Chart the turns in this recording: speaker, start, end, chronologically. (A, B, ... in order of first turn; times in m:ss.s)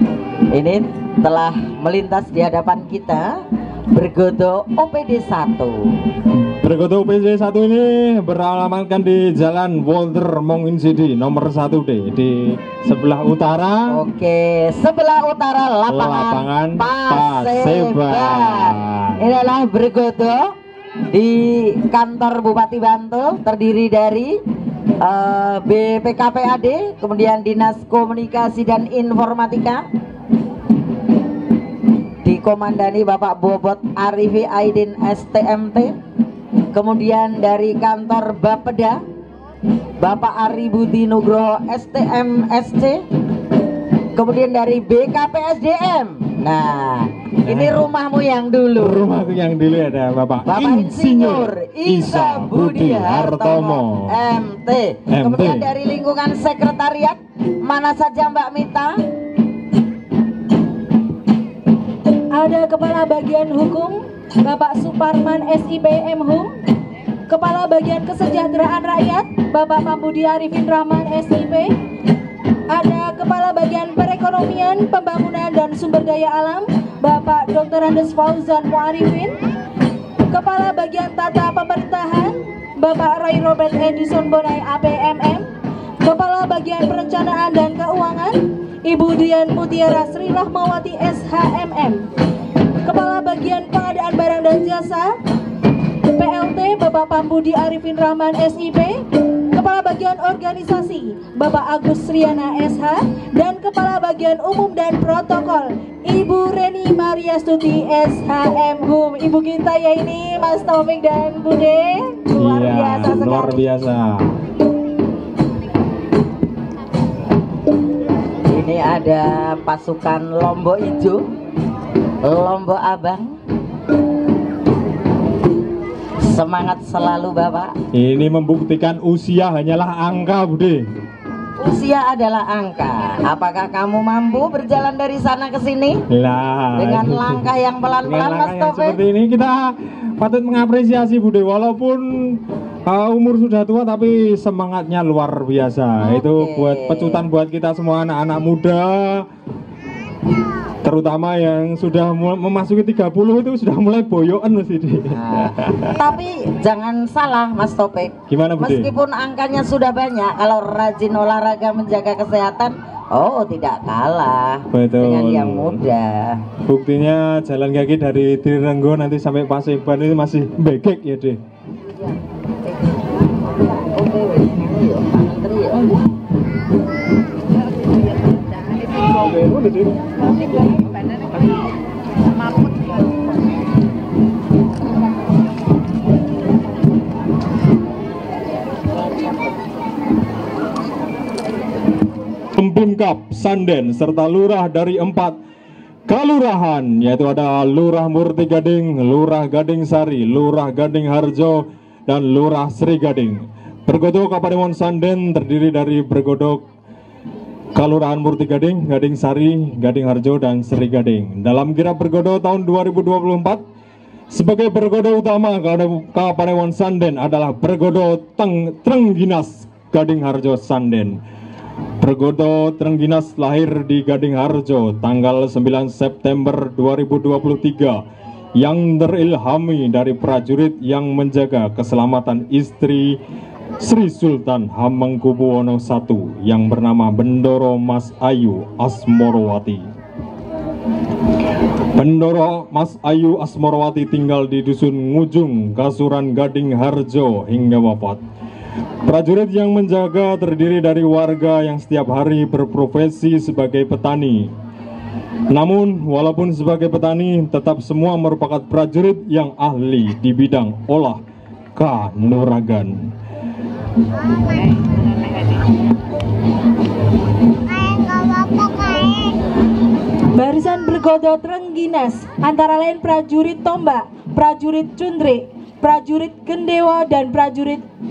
0:00.5-0:03.3 A
0:04.0-0:05.8 A
0:06.6-0:13.8 B
0:13.9-0:20.4 A
0:15.9-0:19.4 B
0:21.1-0:24.3 A
0:25.0-0:29.8 A
0:32.2-0:35.9 A
0:36.7-0:39.0 A
0:40.0-0:43.0 A
0:44.2-0:49.0 A
0:47.5-0:47.8 B
0:48.8-0:54.2 B
0:50.4-0:58.9 A
0:55.1-0:55.7 B
1:02.3-1:06.5 C
1:07.3-1:11.7 C
1:12.7-1:19.4 C
1:20.3-1:25.5 C
1:26.0-1:32.0 C
1:32.8-1:35.1 C
1:36.1-1:53.6 C
1:52.4-1:54.4 B
1:58.5-2:01.2 A
2:02.2-2:03.4 A
2:06.3-2:07.7 A
2:08.0-2:10.8 B
2:11.6-2:16.0 A
2:16.1-2:17.4 B
2:16.8-2:19.0 A
2:18.0-2:29.2 B
2:26.0-2:27.2 A
2:30.8-2:36.0 B
2:35.1-2:46.4 A
2:38.3-2:38.9 B
2:44.7-2:45.8 B
2:46.7-2:51.4 B
2:53.6-2:56.0 A
2:59.4-2:59.8 B
3:12.6-3:15.4 B
3:16.1-3:26.6 B
3:27.8-3:33.6 B
3:34.3-3:41.2 B
3:42.0-3:48.0 B
3:48.6-3:53.2 B
3:53.8-3:59.8 B
4:02.0-4:08.2 B
4:09.1-4:14.5 B
4:15.5-4:21.2 B
4:21.8-4:23.0 B
4:30.3-4:37.8 C